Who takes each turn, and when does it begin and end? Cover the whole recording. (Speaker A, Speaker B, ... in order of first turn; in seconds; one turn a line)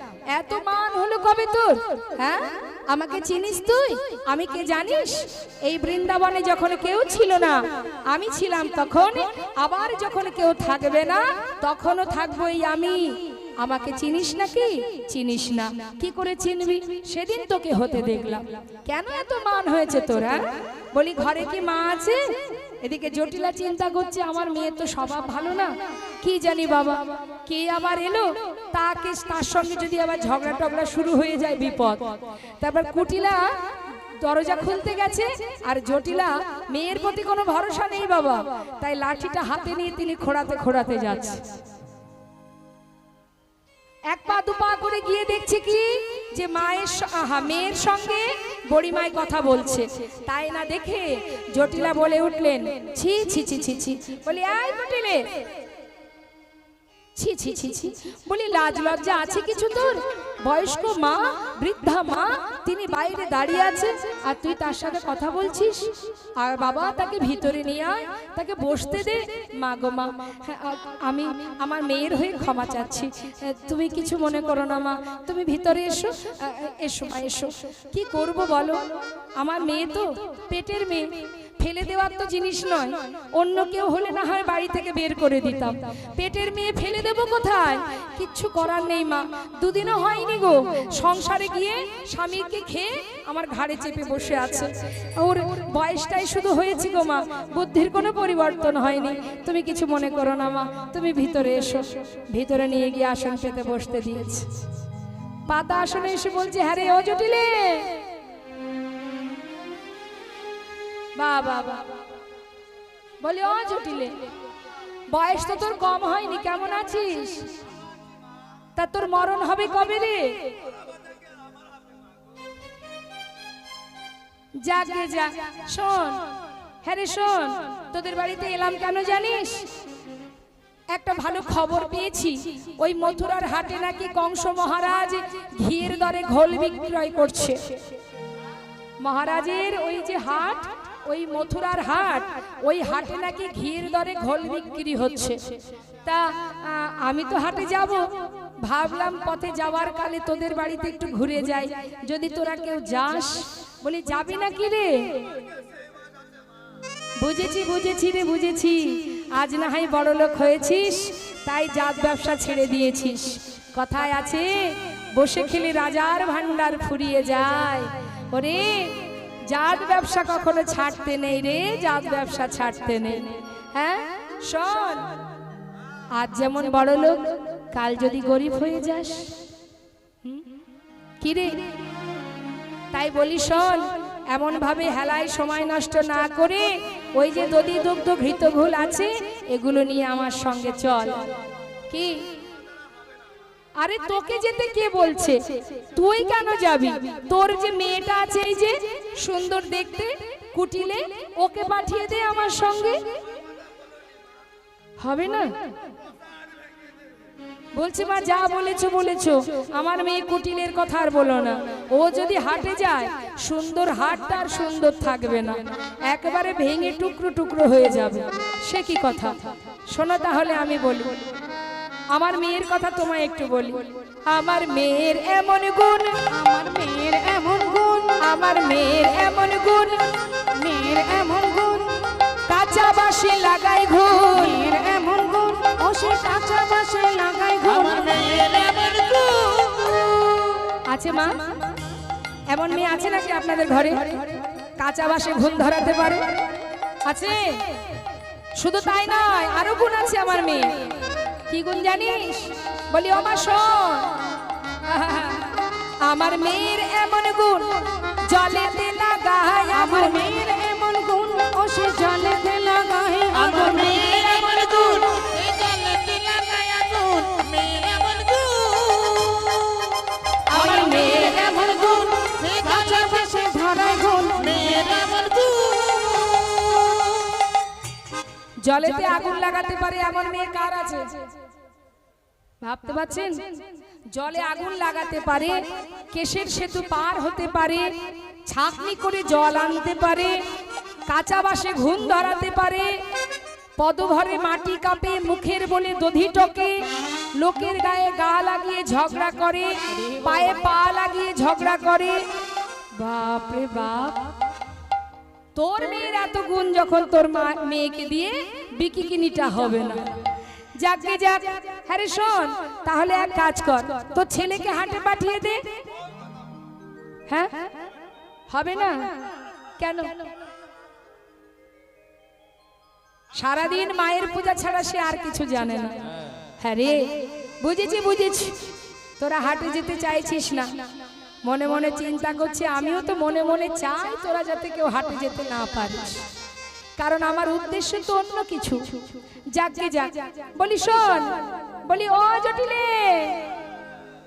Speaker A: 0.3-22.2
Speaker A: 22.8-33.5
Speaker A: 34.2-41.4
Speaker A: 44.1-55.2
Speaker A: 57.2-104.5
Speaker A: 105.5-107.9
Speaker A: 111.2-112.0
Speaker A: 113.2-114.1
Speaker A: 115.1-117.5
Speaker A: 118.8-120.4
Speaker A: 124.6-126.2
Speaker A: 126.8-129.7
Speaker A: 130.9-137.8
Speaker A: 139.0-145.4
Speaker A: 146.1-148.1
Speaker A: 148.6-155.2
Speaker A: 157.2-175.0
Speaker A: 176.2-179.2
Speaker A: 181.2-181.6
Speaker A: 182.9-191.4
Speaker A: 191.9-192.2
Speaker A: 193.8-203.0
Speaker A: 205.0-205.5
Speaker A: 207.8-219.4
Speaker A: 219.9-221.2
Speaker A: 222.1-226.1
Speaker B: 226.3-228.2
Speaker A: 228.2-230.0
Speaker B: 230.6-231.9
Speaker A: 232.5-234.6
Speaker B: 234.3-238.1
Speaker C: 237.6-240.8
Speaker A: 240.9-241.4
Speaker A: 242.5-244.1
Speaker A: 244.8-246.4
Speaker A: 247.1-247.6
Speaker A: 248.6-250.8
Speaker A: 251.5-254.2
Speaker A: 254.9-260.3
Speaker B: 259.7-263.9
Speaker C: 263.3-270.0
Speaker A: 270.5-271.6
Speaker C: 270.5-273.3
Speaker B: 271.5-274.5
Speaker C: 274.4-277.4
Speaker A: 278.6-281.1
Speaker A: 282.6-283.4
Speaker A: 284.1-285.6
Speaker A: 286.1-287.9
Speaker A: 288.5-290.4
Speaker A: 291.1-293.0
Speaker A: 293.8-296.8
Speaker A: 297.4-302.2
Speaker A: 303.0-304.3
Speaker A: 305.6-310.2
Speaker A: 310.8-315.6
Speaker A: 317.3-317.7
Speaker A: 318.5-319.1
Speaker A: 319.8-320.1
Speaker A: 323.4-325.9
Speaker A: 326.6-327.0
Speaker A: 327.6-328.6
Speaker A: 329.2-330.8
Speaker A: 331.4-336.2
Speaker A: 337.0-339.0
Speaker A: 339.5-343.4